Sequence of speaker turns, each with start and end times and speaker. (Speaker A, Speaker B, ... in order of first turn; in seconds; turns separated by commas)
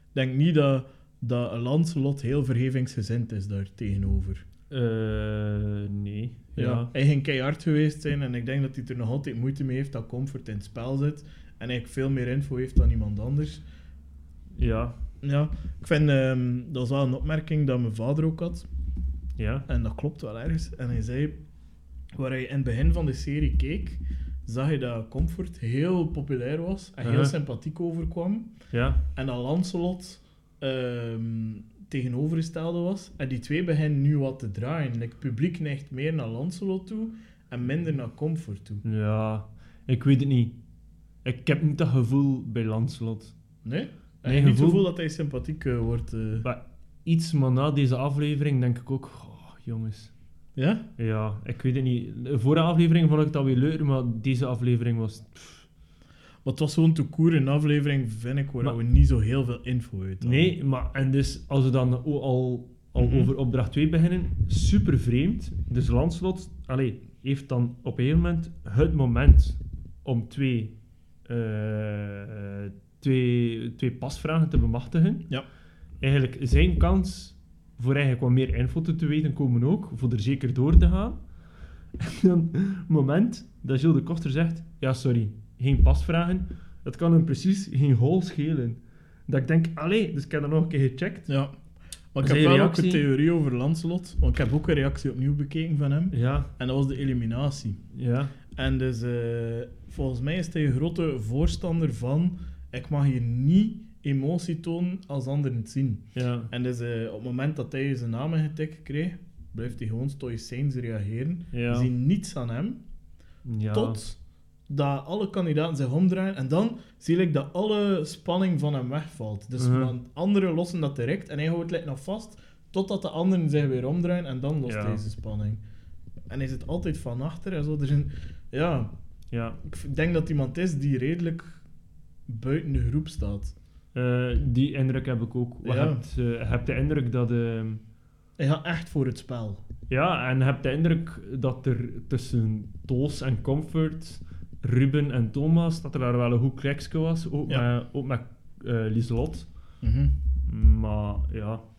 Speaker A: 0.1-4.4, Speaker B: 4.7-6.9, Speaker A: 6.5-13.6, Speaker B: 14.6-15.0, Speaker A: 15.2-18.7, Speaker B: 19.4-19.6, Speaker A: 19.7-21.4, Speaker A: 22.1-28.5, Speaker B: 27.0-27.3, Speaker B: 28.7-29.0, Speaker A: 29.1-38.8, Speaker B: 38.8-40.5, Speaker B: 41.2-43.3, Speaker A: 43.6-46.4, Speaker B: 44.2-44.8, Speaker B: 46.4-50.1, Speaker A: 50.6-50.8, Speaker B: 51.0-55.7, Speaker A: 56.4-60.5, Speaker B: 60.2-75.3, Speaker A: 63.0-63.3, Speaker B: 76.0-81.2, Speaker B: 82.0-91.3, Speaker A: 92.1-97.8, Speaker B: 92.2-93.0, Speaker B: 96.1-96.5, Speaker B: 97.9-98.3, Speaker A: 98.5-112.8, Speaker B: 106.1-106.5, Speaker B: 111.5-111.9, Speaker B: 113.4-114.0, Speaker A: 113.7-125.6, Speaker B: 119.6-119.9, Speaker B: 124.6-125.0, Speaker A: 126.3-128.9, Speaker B: 129.3-129.6, Speaker A: 129.6-131.6, Speaker A: 132.3-133.5, Speaker B: 133.9-137.8, Speaker A: 135.6-136.0, Speaker A: 138.4-139.6, Speaker B: 139.9-149.5, Speaker A: 149.8-150.1, Speaker B: 150.4-151.6